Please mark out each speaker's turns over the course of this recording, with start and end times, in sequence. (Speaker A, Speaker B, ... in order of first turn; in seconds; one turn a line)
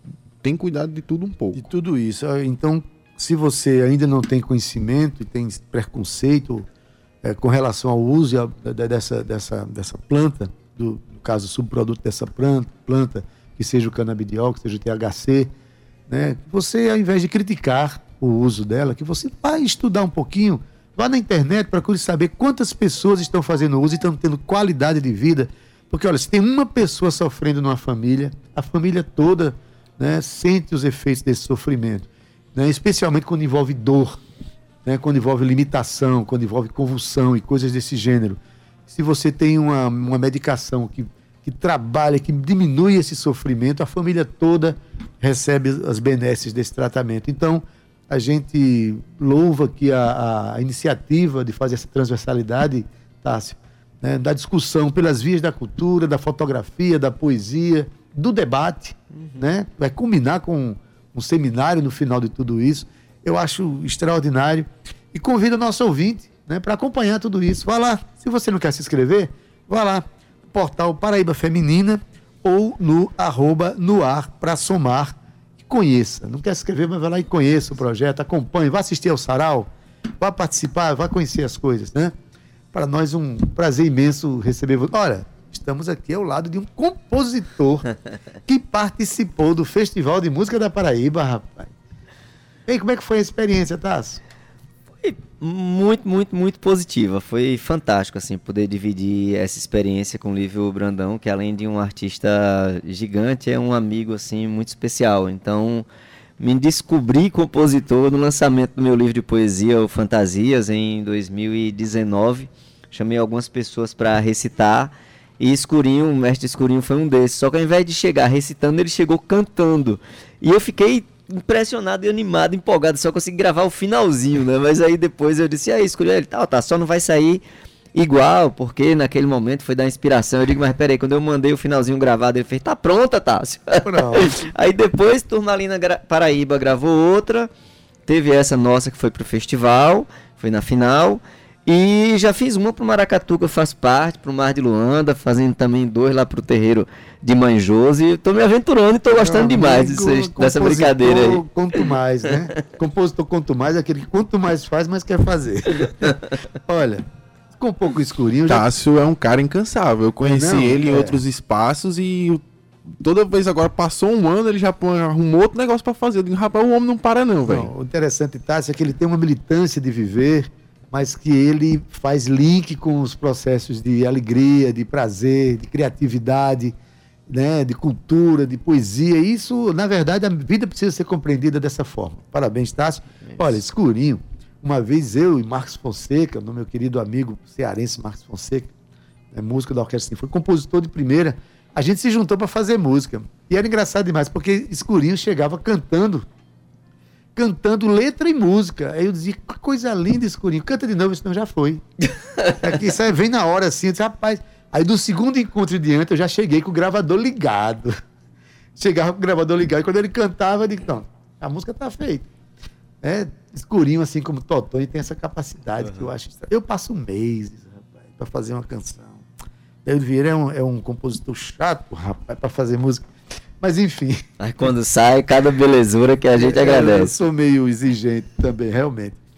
Speaker A: 0.4-1.7
Speaker B: 1.5-6.7
Speaker B: 7.2-15.5
Speaker B: 16.1-34.2
Speaker B: 34.8-82.1
Speaker B: 82.7-87.8
Speaker B: 88.5-91.7
Speaker B: 92.7-94.2
Speaker C: 95.0-105.8
Speaker C: 106.4-127.4
Speaker C: 127.9-137.5
Speaker B: 133.8-134.3
Speaker C: 138.1-151.4
Speaker B: 149.1-158.7
Speaker A: 158.5-162.4
Speaker B: 160.2-161.2
Speaker A: 163.0-167.7
Speaker B: 167.4-176.7
Speaker B: 177.3-188.7
Speaker B: 189.3-196.2
Speaker B: 197.3-201.8
Speaker B: 202.5-208.0
Speaker B: 208.8-212.3
Speaker B: 213.0-219.2
Speaker B: 219.8-223.1
Speaker B: 223.6-224.2
Speaker C: 224.4-227.1
Speaker B: 226.3-229.2